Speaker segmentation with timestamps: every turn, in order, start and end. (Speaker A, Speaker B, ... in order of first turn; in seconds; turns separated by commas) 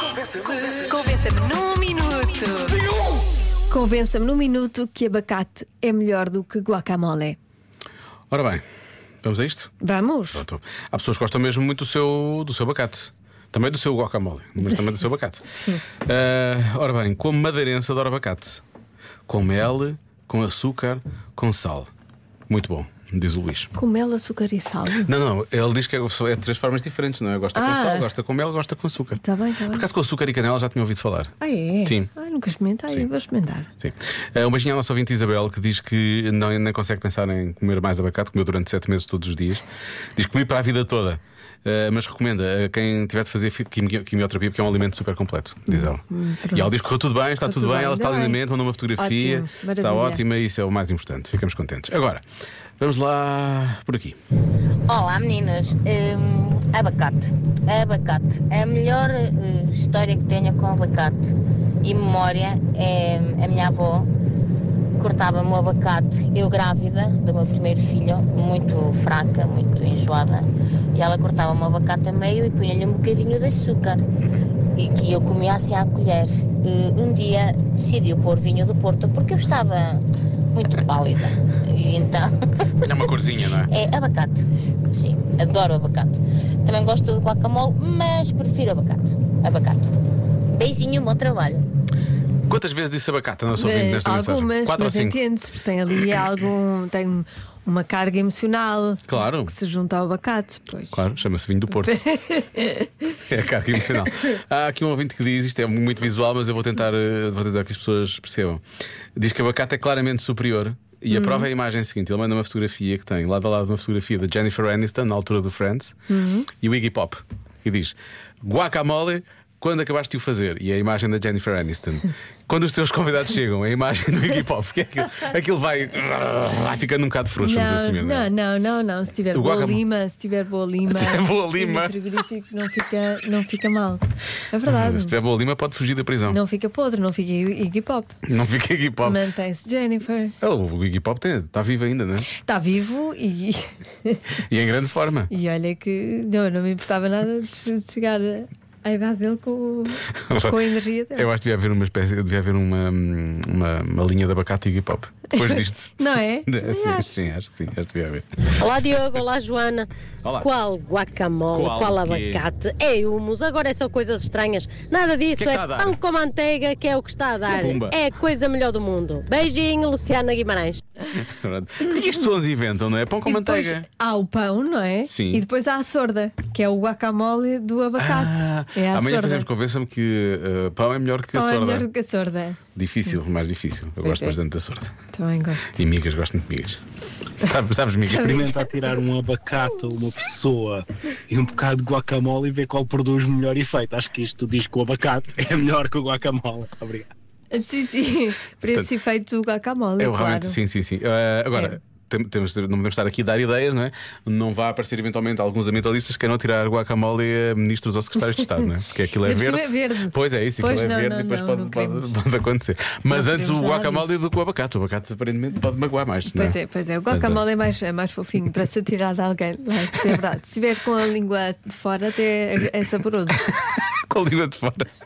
Speaker A: 0.2-2.8, Speaker A: 3.7-7.4, Speaker B: 8.3-8.6, Speaker B: 9.2-9.8, Speaker A: 9.8-10.4, Speaker B: 10.3-18.6, Speaker B: 19.3-21.9, Speaker B: 22.5-23.7, Speaker A: 23.7-25.1, Speaker B: 25.0-32.1, Speaker A: 27.6-28.0, Speaker A: 29.2-29.8, Speaker A: 31.4-33.7, Speaker B: 33.8-39.6, Speaker B: 40.1-52.2, Speaker A: 45.7-46.7, Speaker A: 47.5-48.3, Speaker A: 49.0-50.2, Speaker B: 52.8-54.2, Speaker C: 54.9-64.1, Speaker C: 65.0-74.0, Speaker C: 74.8-82.9, Speaker B: 82.8-83.7, Speaker C: 83.7-89.9, Speaker C: 90.5-91.6, Speaker B: 92.5-95.2, Speaker A: 93.6-101.0, Speaker B: 99.1-99.5, Speaker B: 100.9-102.0, Speaker A: 101.7-103.1, Speaker B: 103.2-108.6, Speaker B: 109.2-128.3, Speaker A: 127.4-135.2, Speaker B: 129.3-129.8, Speaker B: 130.9-132.0, Speaker B: 134.6-136.4, Speaker A: 136.3-138.2, Speaker B: 138.2-139.2, Speaker A: 139.0-140.4, Speaker B: 140.4-142.3, Speaker A: 142.3-144.3, Speaker B: 144.3-145.3, Speaker A: 145.3-151.3, Speaker B: 150.2-150.6, Speaker B: 151.1-158.5, Speaker A: 155.4-157.2, Speaker D: 158.5-170.8, Speaker B: 160.2-160.5, Speaker B: 161.5-162.4, Speaker B: 165.3-166.0, Speaker B: 167.5-168.0, Speaker B: 171.1-173.9, Speaker A: 173.2-179.5, Speaker B: 175.0-175.4, Speaker B: 178.0-181.8, Speaker A: 181.3-183.2, Speaker B: 182.7-184.9, Speaker A: 184.0-184.4, Speaker A: 185.1-185.8, Speaker B: 185.7-186.8, Speaker B: 187.4-188.5, Speaker A: 188.2-188.7, Speaker E: 188.2-197.1, Speaker A: 197.5-200.6, Speaker B: 200.0-217.4, Speaker A: 209.2-212.1, Speaker A: 213.1-214.1, Speaker A: 216.3-223.5, Speaker B: 224.0-224.9